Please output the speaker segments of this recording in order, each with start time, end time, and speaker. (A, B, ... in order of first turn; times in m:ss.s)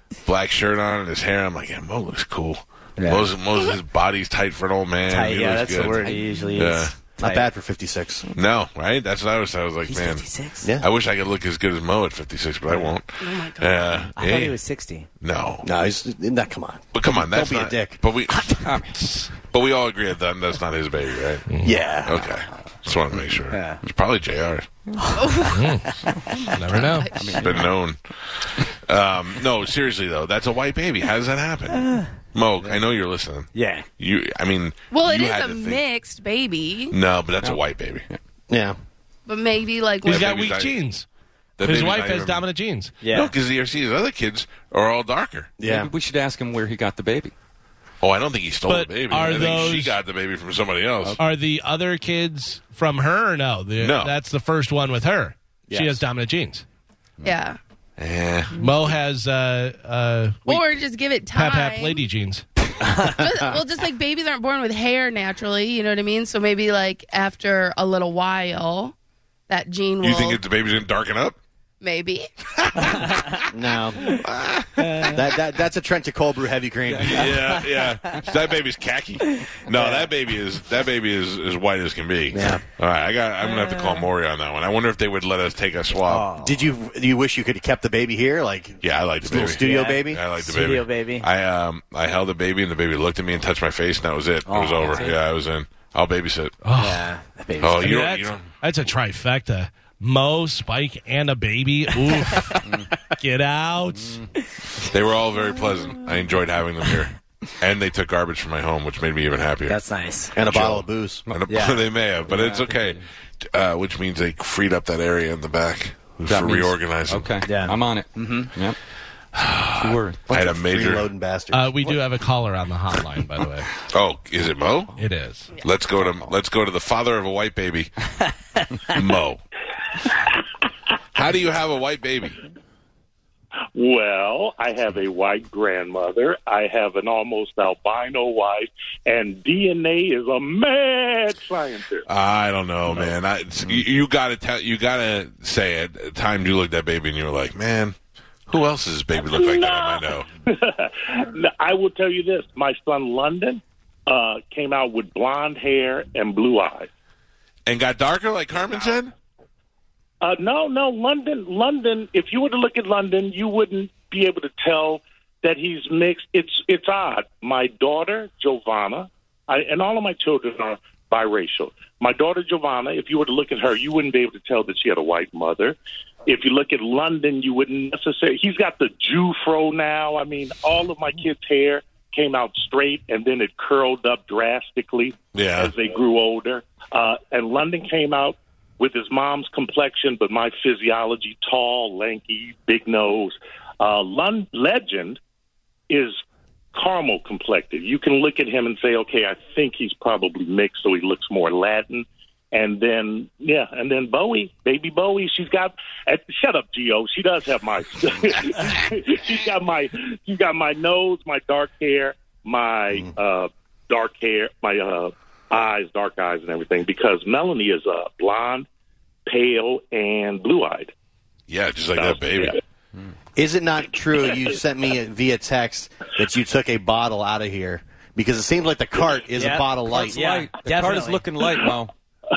0:00.2-0:07.0 A
0:03.0-0:03.3 B
0:05.1-0:07.5 B
0:07.2-0:08.2 C
0:08.3-0:10.2 A
0:09.9-0:10.7 B
0:10.8-0:14.6 A
0:13.2-0:14.1 D
0:14.1-0:15.1 B
0:15.2-0:15.7 A
0:15.6-0:18.0 C
0:16.9-0:18.7 A
0:18.6-0:18.9 E
0:19.0-0:19.3 F
0:19.5-0:21.5 A
0:21.5-0:21.7 F
0:21.6-0:22.3 C
0:21.7-0:22.0 B
0:22.0-0:24.7 A
0:23.5-0:23.8 B
0:25.0-0:26.0 B
0:25.2-0:25.5 D
0:25.5-0:25.9 F
0:26.3-0:27.3 D
0:26.5-0:27.1 F
0:27.1-0:27.7 E
0:27.4-0:28.0 A
0:28.8-0:35.8 A
0:31.8-0:32.1 B
0:33.5-0:33.9 B
0:34.9-0:37.0 D
0:36.9-0:38.1 A
0:37.4-0:38.2 E
0:38.5-0:38.8 C
0:39.3-0:40.4 D
0:40.0-0:40.8 A
0:40.0-0:41.1 F
0:41.6-0:42.4 A
0:41.6-0:42.9 F
0:43.0-0:43.3 B
0:43.1-0:45.5 A
0:45.6-0:45.9 C
0:45.6-0:47.3 E
0:48.0-0:51.2 A
0:48.7-0:50.0 F
0:51.2-0:56.6 F
0:53.8-0:54.1 A
0:55.7-0:56.0 C
0:57.2-0:57.6 D
0:58.0-0:58.5 A
0:58.6-1:00.7 F
1:00.5-1:02.0 D
1:01.3-1:02.4 F
1:03.1-1:08.9 D
1:09.5-1:10.4 D
1:10.0-1:11.4 A
1:11.8-1:12.3 D
1:12.6-1:13.4 A
1:13.5-1:14.2 C
1:14.0-1:15.1 A
1:15.0-1:17.4 C
1:16.9-1:17.2 E
1:17.0-1:26.3 A
1:19.7-1:20.1 B
1:22.3-1:22.6 C
1:23.5-1:23.8 B
1:26.1-1:26.6 B
1:26.4-1:30.2 C
1:28.8-1:36.6 A
1:29.6-1:31.3 B
1:34.5-1:35.0 B
1:34.8-1:35.2 E
1:36.6-1:37.1 F
1:36.8-1:38.0 B
1:37.6-1:38.4 A
1:37.8-1:42.6 F
1:42.6-1:42.9 E
1:43.2-1:44.2 F
1:44.0-1:44.3 E
1:44.8-1:49.8 A
1:49.7-1:50.3 B
1:50.4-1:51.2 C
1:50.4-1:57.3 A
1:51.5-1:51.8 B
1:52.3-1:53.0 E
1:56.2-1:58.8 E
1:57.4-1:58.6 B
1:59.4-2:01.1 A
1:59.8-2:00.2 E
2:00.3-2:02.0 C
2:01.5-2:03.7 F
2:03.9-2:04.9 A
2:05.0-2:05.5 F
2:05.6-2:07.9 A
2:06.0-2:06.3 E
2:08.9-2:09.4 A
2:11.1-2:12.4 A
2:13.8-2:22.0 G
2:22.1-2:28.0 A
2:28.5-2:30.3 A
2:29.2-2:36.9 G
2:37.6-2:39.1 A
2:40.2-3:15.2 G
3:05.3-3:05.7 A
3:15.9-3:16.2 G
3:16.7-3:38.6 G
3:39.3-3:40.9 G
3:41.5-3:42.6 A
3:42.0-3:42.6 G
3:43.4-3:50.2 C
3:49.4-3:51.3 B
3:49.9-3:51.9 E